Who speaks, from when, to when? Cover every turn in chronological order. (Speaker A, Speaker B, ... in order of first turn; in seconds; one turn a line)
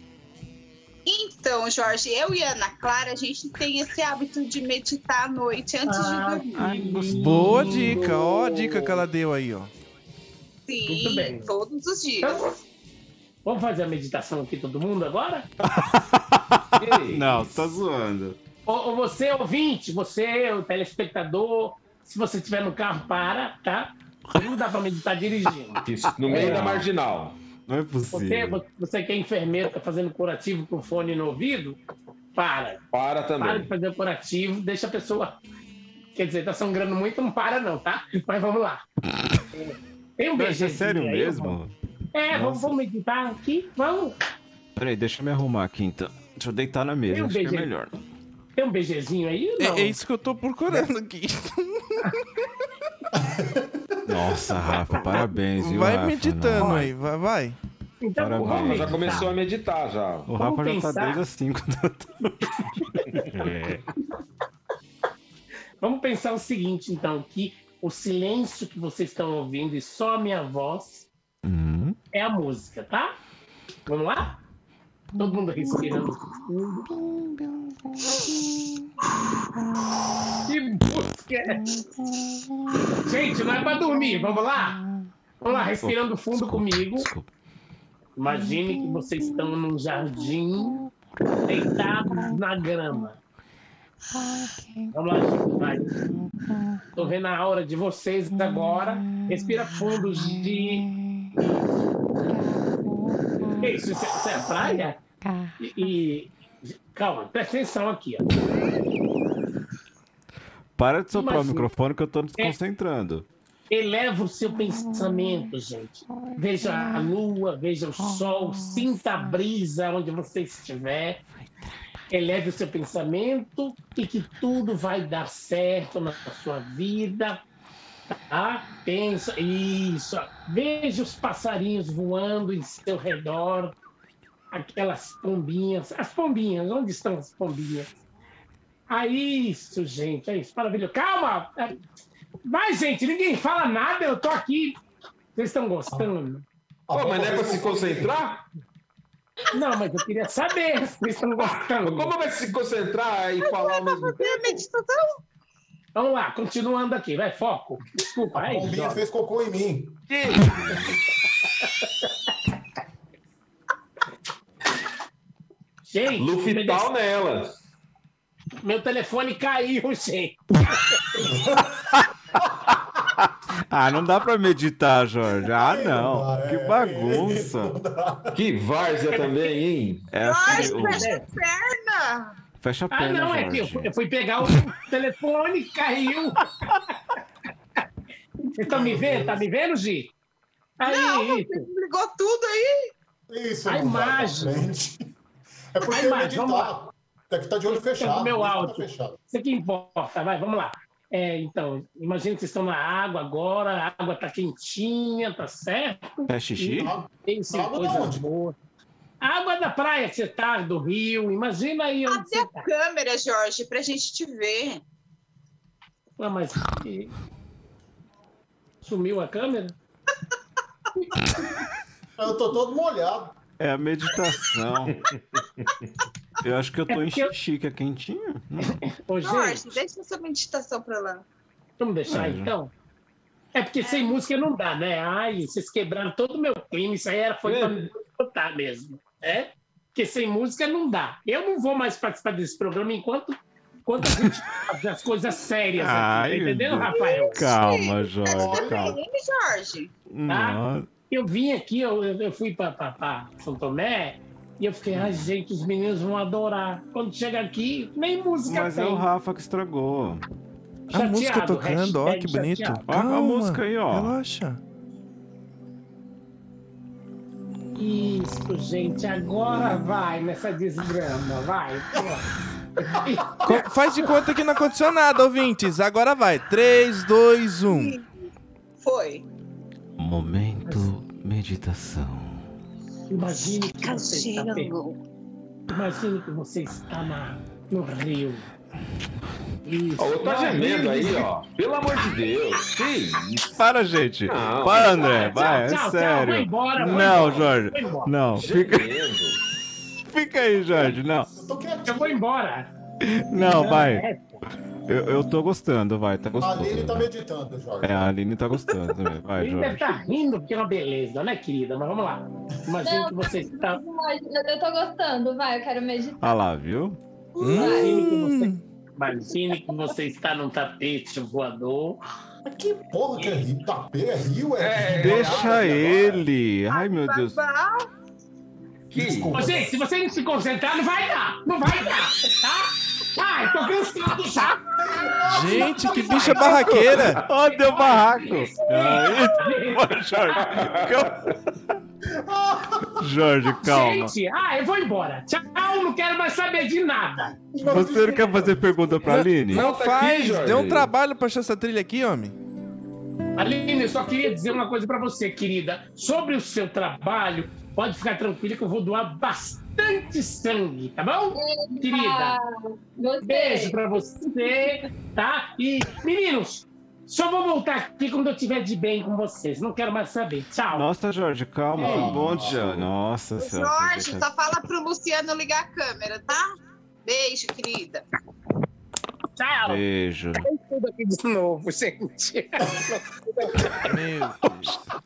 Speaker A: 1.1-6.7
Speaker B: 5.8-9.0
Speaker C: 6.5-8.1
Speaker D: 7.1-9.7
Speaker A: 10.7-12.4
Speaker B: 10.8-11.5
Speaker B: 12.2-12.6
Speaker B: 13.4-15.5
Speaker C: 15.7-16.4
Speaker E: 16.8-17.7
Speaker C: 17.1-18.4
Speaker B: 18.6-26.9
Speaker E: 25.8-27.4
Speaker C: 26.3-26.8
Speaker C: 27.7-28.6
Speaker B: 28.1-31.8
Speaker B: 32.3-32.8
Speaker E: 32.9-33.7
Speaker B: 33.4-35.4
Speaker B: 36.1-38.8
Speaker B: 39.5-41.6
Speaker C: 40.4-41.7
Speaker B: 42.1-44.1
Speaker C: 42.3-42.8
Speaker C: 44.8-48.0
Speaker B: 47.1-47.7
Speaker B: 48.5-50.0
Speaker D: 49.6-52.1
Speaker F: 53.1-54.1
Speaker C: 54.0-56.9
Speaker D: 55.2-57.6
Speaker B: 58.0-59.3
Speaker C: 58.2-59.3
Speaker E: 58.4-60.3
Speaker C: 60.2-62.4
Speaker B: 60.4-61.2
Speaker B: 62.7-63.5
Speaker C: 63.1-63.8
Speaker B: 65.8-71.1
Speaker C: 71.4-72.0
Speaker B: 72.1-73.1
Speaker B: 73.9-74.3
Speaker B: 75.1-77.0
Speaker B: 80.4-81.7
Speaker B: 83.0-84.8
Speaker B: 85.4-87.1
Speaker C: 85.8-87.3
Speaker B: 88.2-90.8
Speaker B: 91.5-93.2
Speaker B: 94.9-96.0
Speaker B: 96.9-100.9
Speaker B: 103.5-105.0
Speaker B: 105.6-106.3
Speaker B: 106.8-108.3
Speaker C: 110.8-113.3
Speaker B: 111.1-111.7
Speaker B: 113.7-121.2
Speaker B: 122.1-127.4
Speaker B: 128.1-133.8
Speaker B: 134.5-137.9
Speaker B: 138.9-141.8
Speaker B: 142.5-144.8
Speaker B: 145.3-146.4
Speaker F: 146.9-148.2
Speaker E: 146.9-148.4
Speaker B: 149.5-152.1
Speaker E: 151.8-154.6
Speaker A: 153.4-155.2
Speaker B: 155.9-159.0
Speaker F: 158.3-160.0
Speaker E: 160.1-161.0
Speaker B: 165.8-166.9
Speaker E: 166.2-167.5
Speaker B: 168.6-170.6
Speaker F: 171.2-171.8
Speaker F: 172.4-172.8
Speaker C: 173.7-177.7
Speaker F: 175.4-178.4
Speaker E: 178.3-180.1
Speaker A: 179.1-179.5
Speaker C: 180.1-181.1
Speaker A: 180.2-182.3
Speaker B: 180.4-181.2
Speaker C: 182.6-183.9
Speaker B: 182.9-186.4
Speaker B: 188.6-190.1
Speaker F: 188.7-189.4
Speaker B: 190.8-191.7
Speaker A: 190.8-192.9
Speaker F: 193.3-195.0
Speaker B: 193.7-194.7
Speaker F: 195.7-199.2
Speaker B: 195.8-196.8
Speaker B: 197.7-208.6
Speaker C: 206.3-206.9
Speaker F: 206.8-208.2
Speaker B: 209.2-212.7
Speaker A: 212.1-214.8
Speaker B: 216.2-217.1
Speaker B: 218.8-219.7
Speaker F: 222.2-223.3
Speaker C: 223.6-224.9
Speaker E: 225.1-225.9
Speaker C: 226.4-228.7
Speaker B: 226.9-227.3
Speaker B: 229.0-229.7
Speaker A: 229.2-231.2
Speaker B: 231.8-232.7
Speaker C: 232.1-232.5
Speaker B: 233.5-247.5
Speaker A: 233.8-234.1
Speaker E: 237.4-237.8
Speaker C: 245.8-249.0
Speaker A: 246.8-249.9
Speaker F: 248.3-248.8
Speaker C: 250.1-250.9
Speaker B: 250.3-259.1
Speaker C: 254.9-255.2
Speaker C: 258.4-260.2
Speaker B: 260.9-262.8
Speaker D: 260.9-264.6
Speaker C: 262.9-264.1
Speaker B: 267.8-272.3
Speaker B: 272.8-273.7
Speaker D: 273.4-278.0
Speaker A: 277.6-278.0
Speaker A: 278.8-279.2
Speaker C: 280.0-282.4
Speaker B: 280.7-280.9
Speaker B: 283.1-284.7
Speaker A: 283.8-285.0
Speaker B: 285.7-288.5
Speaker B: 289.6-291.3
Speaker E: 290.0-293.4
Speaker C: 293.5-298.9
Speaker E: 294.3-295.4
Speaker B: 294.9-298.1
Speaker E: 296.9-297.4
Speaker E: 298.3-299.4
Speaker C: 300.1-301.3
Speaker F: 301.3-302.2
Speaker B: 301.8-302.7
Speaker C: 303.0-304.1
Speaker B: 303.3-304.4
Speaker C: 304.9-307.1
Speaker F: 306.4-308.1
Speaker C: 307.8-309.9
Speaker B: 309.4-313.8
Speaker G: 312.8-316.4
Speaker C: 316.2-317.0
Speaker A: 317.4-317.7
Speaker D: 317.4-318.6
Speaker B: 317.5-322.0
Speaker G: 317.5-318.0
Speaker F: 322.4-325.5
Speaker B: 323.2-323.4
Speaker E: 324.6-326.2
Speaker C: 324.9-327.4
Speaker A: 326.7-327.8
Speaker E: 328.9-329.5
Speaker F: 328.9-329.7
Speaker B: 329.3-334.6
Speaker F: 334.8-336.5
Speaker D: 335.2-337.2
Speaker A: 335.8-336.7
Speaker E: 336.6-337.1
Speaker C: 337.2-341.3
Speaker B: 337.7-340.5
Speaker E: 340.3-341.3
Speaker F: 342.1-343.0
Speaker C: 343.0-344.1
Speaker B: 343.6-347.4
Speaker F: 347.5-348.9
Speaker C: 347.6-349.7
Speaker D: 349.0-352.4
Speaker E: 349.5-350.9
Speaker B: 353.4-362.4
Speaker G: 361.3-362.4
Speaker G: 363.0-364.8
Speaker B: 363.2-370.9
Speaker C: 370.7-374.3
Speaker B: 371.8-372.3
Speaker F: 371.8-372.7
Speaker E: 372.3-372.9
Speaker A: 373.4-376.5
Speaker A: 377.1-378.0
Speaker B: 379.3-379.8
Speaker C: 379.6-380.4
Speaker B: 380.4-384.0
Speaker D: 383.8-384.8